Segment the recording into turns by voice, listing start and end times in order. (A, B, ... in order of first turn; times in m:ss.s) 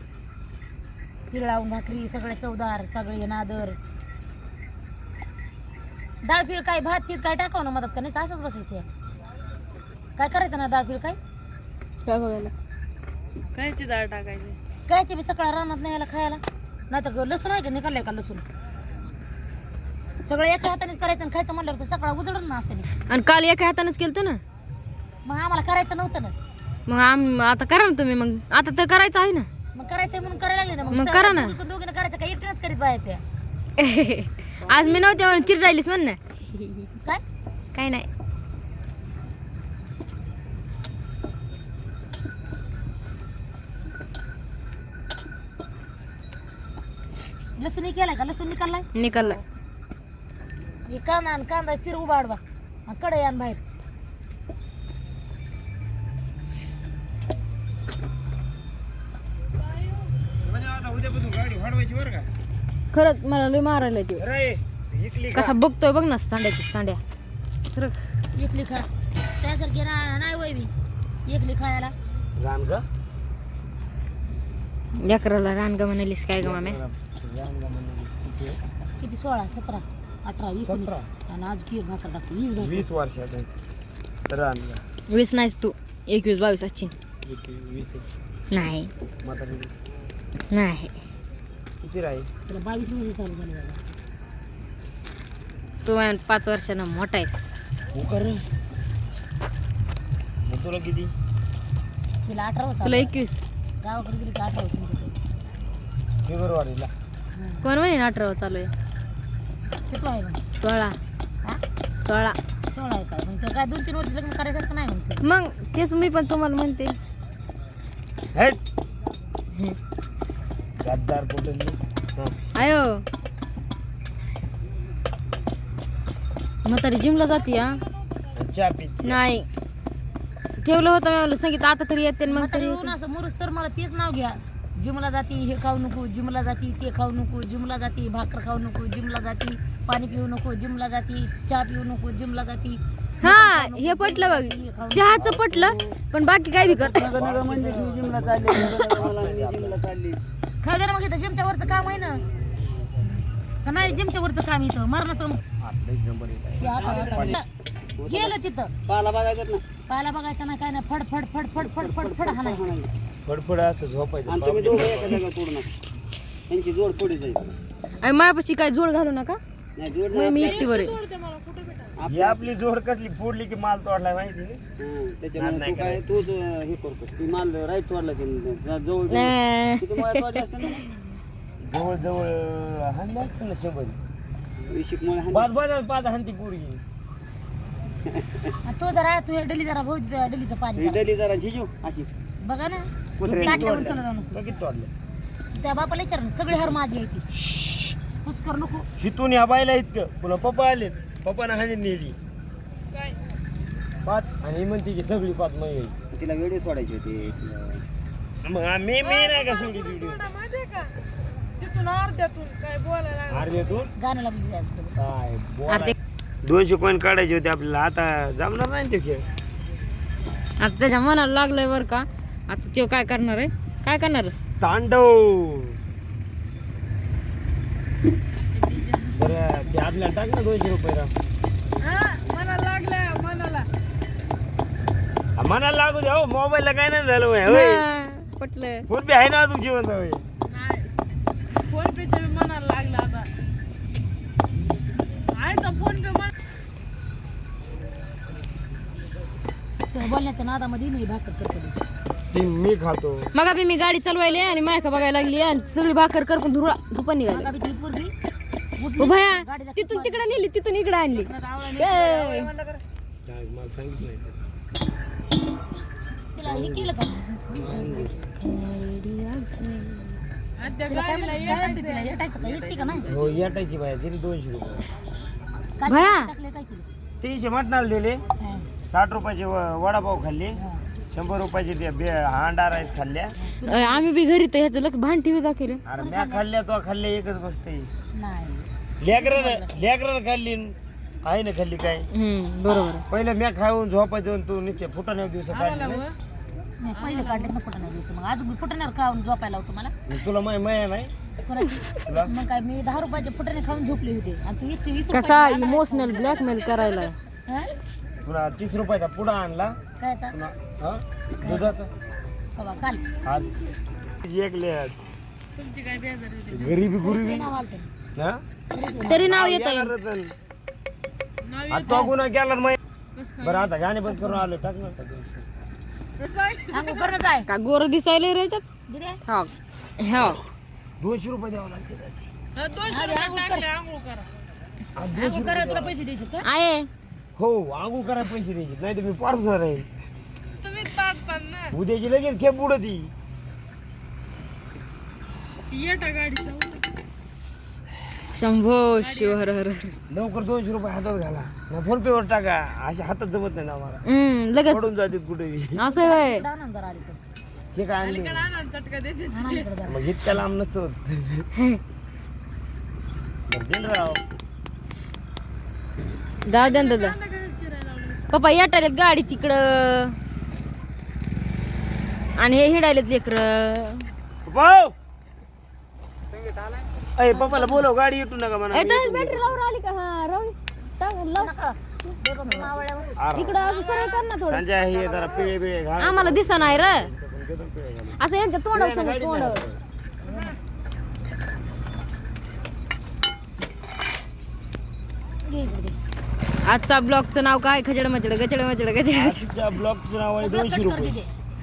0:01.3-0:03.8 A
0:06.2-0:08.9 A
0:10.2-0:11.2 A
0:12.0-0:12.5 B
0:13.5-0:14.6 C
0:14.9-0:18.4 A
0:20.2-0:22.9 A
0:23.1-0:24.4 B
0:25.2-0:26.4 A
0:26.9-0:29.5 B
0:29.7-0:33.2 A
0:30.9-0:31.6 B
0:33.8-0:36.9 B
0:34.7-0:35.0 D
0:37.7-0:38.1 B
0:47.6-0:48.9 A
0:49.0-0:49.4 B
0:50.9-0:53.6 A
1:00.4-1:02.3 E
1:02.9-1:04.2 B
1:04.2-1:05.6 E
1:05.3-1:07.0 B
1:08.4-1:08.9 A
1:09.4-1:10.7 A
1:11.3-1:11.9 A
1:12.4-1:12.9 E
1:15.0-1:16.8 B
1:16.4-1:18.6 E
1:19.0-1:22.9 A
1:20.6-1:21.1 E
1:22.6-1:23.5 E
1:24.3-1:24.8 E
1:25.1-1:26.9 B
1:27.2-1:28.1 E
1:28.5-1:28.9 B
1:29.2-1:29.7 E
1:30.5-1:30.9 B
1:31.8-1:32.3 E
1:32.4-1:33.8 A
1:35.8-1:37.3 B
1:37.9-1:38.4 E
1:40.4-1:41.1 E
1:42.3-1:43.2 A
1:42.8-1:43.4 B
1:43.8-1:45.2 A
1:46.3-1:46.9 E
1:47.4-1:47.6 A
1:47.6-1:48.7 B
1:49.9-1:50.4 A
1:50.6-1:51.0 B
1:52.0-1:52.4 B
1:52.7-1:55.2 A
1:55.2-1:57.0 B
1:58.3-1:58.6 E
2:00.8-2:02.4 E
2:02.6-2:03.0 B
2:06.6-2:07.8 B
2:08.3-2:09.2 E
2:09.0-2:09.4 B
2:10.6-2:12.9 B
2:12.2-2:25.2 A
2:23.2-2:27.0 B
2:25.2-2:25.9 E
2:26.6-2:30.2 D
2:26.9-2:29.8 E
2:30.6-2:32.2 A
2:33.6-2:35.4 A
2:35.6-2:37.4 E
2:36.6-2:37.5 A
2:36.9-2:37.3 D
2:38.0-2:38.4 D
2:38.1-2:38.7 A
2:38.9-2:39.6 D
2:39.9-2:42.7 A
2:41.6-2:42.9 D
2:43.2-2:45.2 E
2:44.2-2:45.7 D
2:46.5-2:47.6 D
2:48.0-2:49.4 B
2:49.8-2:50.7 D
2:50.1-2:51.0 B
2:50.4-2:51.9 C
2:52.0-2:52.5 D
2:52.1-2:54.6 E
2:54.8-3:00.8 D
2:55.4-2:56.0 E
2:59.1-3:00.8 B
3:01.6-3:04.0 E
3:04.6-3:05.5 D
3:05.3-3:06.8 E
3:08.1-3:08.5 D
3:08.6-3:11.0 A
3:10.8-3:12.1 D
3:12.4-3:12.9 A
3:13.2-3:13.8 D
3:13.2-3:14.9 E
3:13.4-3:14.3 A
3:15.6-3:17.3 A
3:18.2-3:18.9 A
3:19.0-3:22.2 E
3:24.0-3:25.9 E
3:26.1-3:27.8 D
3:28.4-3:30.3 E
3:29.0-3:30.9 C
3:31.6-3:33.5 C
3:33.3-3:33.9 E
3:34.0-3:35.0 A
3:35.0-3:39.2 E
3:35.7-3:36.0 B
3:40.6-3:44.3 B
3:44.6-3:45.8 E
3:48.6-3:49.2 C
3:49.1-3:51.1 E
3:51.8-3:53.7 C
3:55.4-3:57.9 E
3:57.4-3:58.8 B
3:58.9-4:00.2 E
4:00.5-4:00.9 C
4:01.7-4:03.3 C
4:05.3-4:06.3 C
4:09.9-4:11.8 A
4:12.3-4:13.3 E
4:13.3-4:17.5 B
4:17.3-4:18.1 A
4:18.8-4:20.5 A
4:19.0-4:22.5 B
4:21.1-4:22.7 A
4:23.2-4:24.4 E
4:26.3-4:27.9 A
4:26.5-4:26.9 E
4:27.5-4:28.1 E
4:28.4-4:30.2 B
4:30.6-4:32.2 C
4:30.9-4:33.1 A
4:32.4-4:33.4 D
4:33.1-4:34.9 E
4:35.8-4:36.9 A
4:35.9-4:36.3 B
4:37.2-4:38.2 E
4:38.4-4:38.7 A
4:38.9-4:40.6 E
4:40.6-4:40.8 A
4:41.1-4:43.4 E
4:43.4-4:44.1 A
4:43.7-4:45.8 B
4:45.9-4:47.9 E
4:45.9-4:46.5 A
4:48.2-4:48.6 A
4:49.0-4:52.1 E
4:49.2-4:49.8 A
4:52.1-4:53.0 B
4:53.1-4:56.0 E
4:55.5-4:56.2 C
4:56.8-4:59.9 A
4:57.0-4:57.5 C
5:00.1-5:01.1 E
5:01.4-5:06.7 A
5:02.1-5:02.3 E
5:05.1-5:07.2 B
5:06.3-5:07.1 C
5:08.2-5:09.8 E
5:10.0-5:10.4 A
5:10.3-5:11.9 E
5:11.4-5:11.8 A
5:12.5-5:13.1 A
5:13.2-5:15.0 E
5:15.6-5:16.8 C
5:16.5-5:17.5 E
5:17.0-5:17.9 A
5:18.2-5:18.4 E
5:18.7-5:19.3 A
5:19.1-5:19.9 B
5:19.2-5:20.3 E
5:21.4-5:22.1 C
5:21.7-5:22.8 E
5:23.2-5:23.7 C
5:23.4-5:25.4 E
5:26.2-5:27.2 C
5:26.7-5:27.5 A
5:27.5-5:28.6 B
5:28.9-5:29.2 A
5:29.2-5:30.4 B
5:31.0-5:32.3 E
5:32.6-5:34.3 C
5:32.9-5:33.7 A
5:35.0-5:36.0 E
5:35.1-5:36.5 A
5:36.4-5:36.9 B
5:37.4-5:39.9 E
5:40.6-5:41.7 C
5:41.7-5:43.1 E
5:45.7-5:47.0 C
5:48.4-5:49.9 B
5:49.0-5:49.5 C
5:50.1-5:54.0 E
5:54.1-5:54.8 B
5:54.7-5:55.8 E
5:55.8-5:56.4 B
5:55.9-5:57.2 A
5:57.7-5:58.5 E
5:58.0-5:59.7 C
5:59.3-6:00.0 A
5:59.8-6:01.5 E
6:03.5-6:04.2 E
6:06.5-6:07.2 B
6:06.5-6:08.3 C
6:08.3-6:10.2 B
6:12.4-6:14.1 B
6:14.5-6:14.9 E
6:16.4-6:16.8 C
6:17.2-6:19.6 E
6:18.7-6:21.5 B
6:21.4-6:23.2 A
6:23.2-6:23.6 E
6:23.4-6:27.1 B
6:23.6-6:24.3 C
6:24.4-6:28.2 E
6:28.2-6:29.6 B
6:28.7-6:29.8 E
6:30.3-6:30.5 A
6:35.5-6:36.0 A
6:36.6-6:39.5 B
6:39.1-6:41.2 E
6:40.4-6:41.3 A